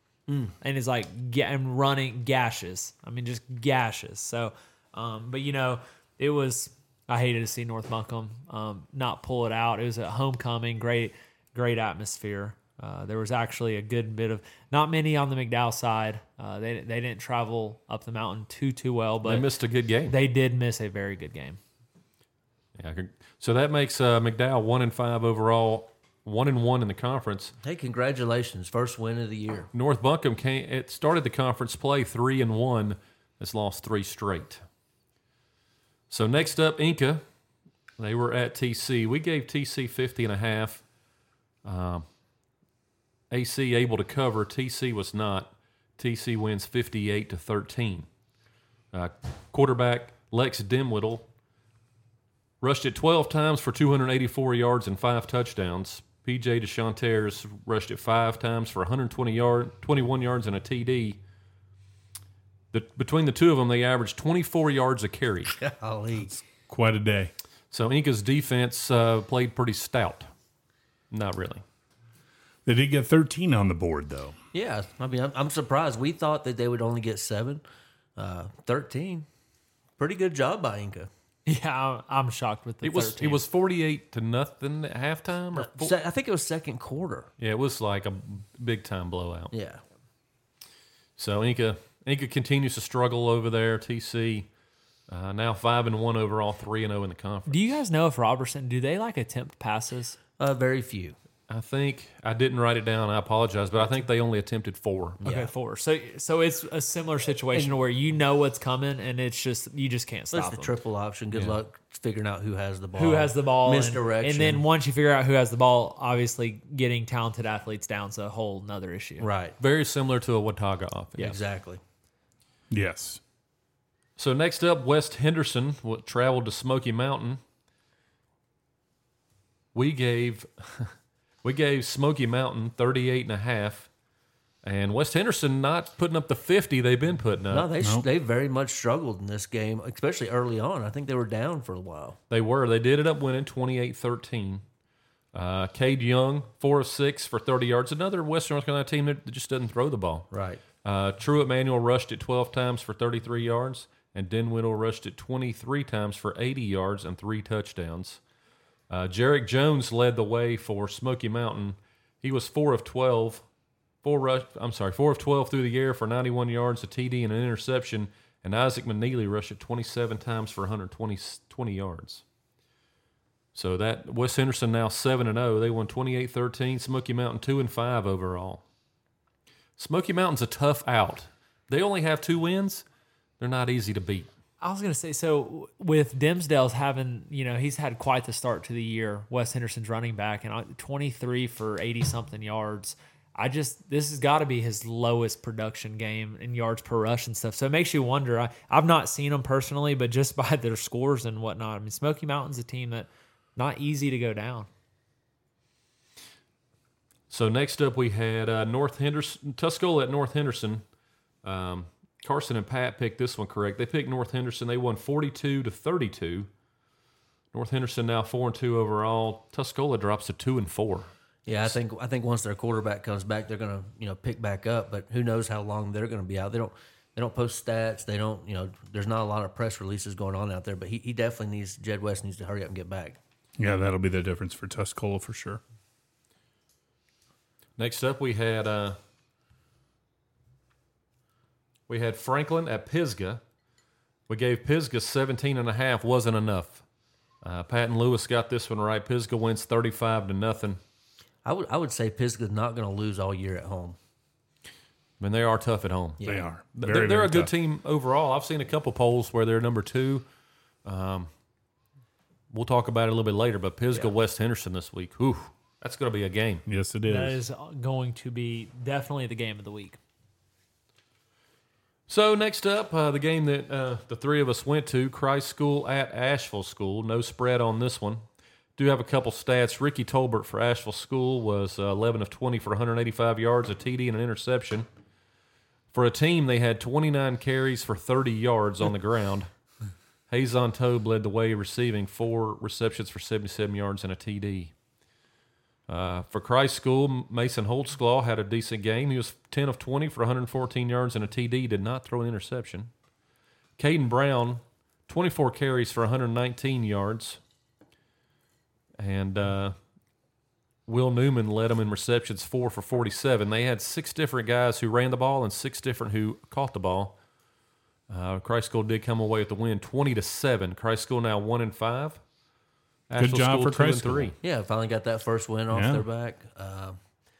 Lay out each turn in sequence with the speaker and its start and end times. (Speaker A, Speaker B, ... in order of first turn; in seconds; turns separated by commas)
Speaker A: 0.6-19.4, Speaker B: 19.2-20.1, Speaker A: 20.1-21.6, Speaker B: 22.8-27.5, Speaker C: 27.6-29.7, Speaker B: 29.7-34.6, Speaker B: 36.1-37.2, Speaker B: 38.0-40.8, Speaker B: 41.6-42.0, Speaker B: 43.3-48.1, Speaker B: 48.9-51.3, Speaker B: 52.6-61.2, Speaker B: 62.7-65.5, Speaker C: 65.5-66.4, Speaker D: 66.7-67.3, Speaker B: 67.7-70.3, Speaker B: 71.1-71.6, Speaker D: 72.7-74.3, Speaker C: 74.5-77.6, Speaker C: 78.2-79.2, Speaker C: 80.0-81.1, Speaker A: 81.5-83.4, Speaker B: 82.8-85.9, Speaker C: 85.5-87.3, Speaker B: 87.4-89.5, Speaker C: 89.5-89.8, Speaker B: 91.2-94.5, Speaker B: 95.1-97.8, Speaker A: 97.5-100.2, Speaker C: 100.4-101.2, Speaker B: 101.5-105.2, Speaker C: 105.2-105.5, Speaker A: 105.2-110.8, Speaker C: 110.3-114.6, Speaker A: 113.0-119.3, Speaker C: 119.2-119.5, Speaker B: 119.6-121.3, Speaker C: 121.2-121.8, Speaker D: 122.7-123.2, Speaker B: 124.2-127.4, Speaker B: 129.7-130.9, Speaker B: 131.4-133.9, Speaker B: 134.6-137.7, Speaker C: 137.5-142.2, Speaker B: 142.3-144.6, Speaker B: 145.3-150.3, Speaker C: 150.3-150.6, Speaker B: 150.8-158.2, Speaker B: 158.9-163.4, Speaker B: 164.0-172.2, Speaker B: 173.5-178.6, Speaker B: 179.8-182.8, Speaker B: 183.4-184.3, Speaker A: 184.6-204.7, Speaker B: 207.3-210.8, Speaker B: 211.4-216.5, Speaker B: 217.5-221.1, Speaker C: 221.4-233.2, Speaker D: 233.6-235.6, Speaker B: 237.8-239.0, Speaker B: 241.9-243.4, Speaker B: 244.3-246.8, Speaker B: 247.4-250.8, Speaker C: 251.4-254.0, Speaker B: 255.2-256.2, Speaker C: 256.2-256.5, Speaker D: 256.2-257.5, Speaker B: 256.7-260.2, Speaker B: 260.8-261.3, Speaker B: 262.5-266.6, Speaker D: 266.7-267.4, Speaker A: 267.1-270.0, Speaker B: 272.1-278.2, Speaker B: 278.8-284.9, Speaker B: 285.9-289.5, Speaker B: 290.3-294.7, Speaker B: 295.9-302.9, Speaker B: 303.8-307.4, Speaker B: 309.0-309.7, Speaker B: 310.9-317.1, Speaker B: 318.1-322.2, Speaker B: 323.1-324.3, Speaker D: 323.2-324.3, Speaker C: 324.4-327.0, Speaker D: 325.7-326.0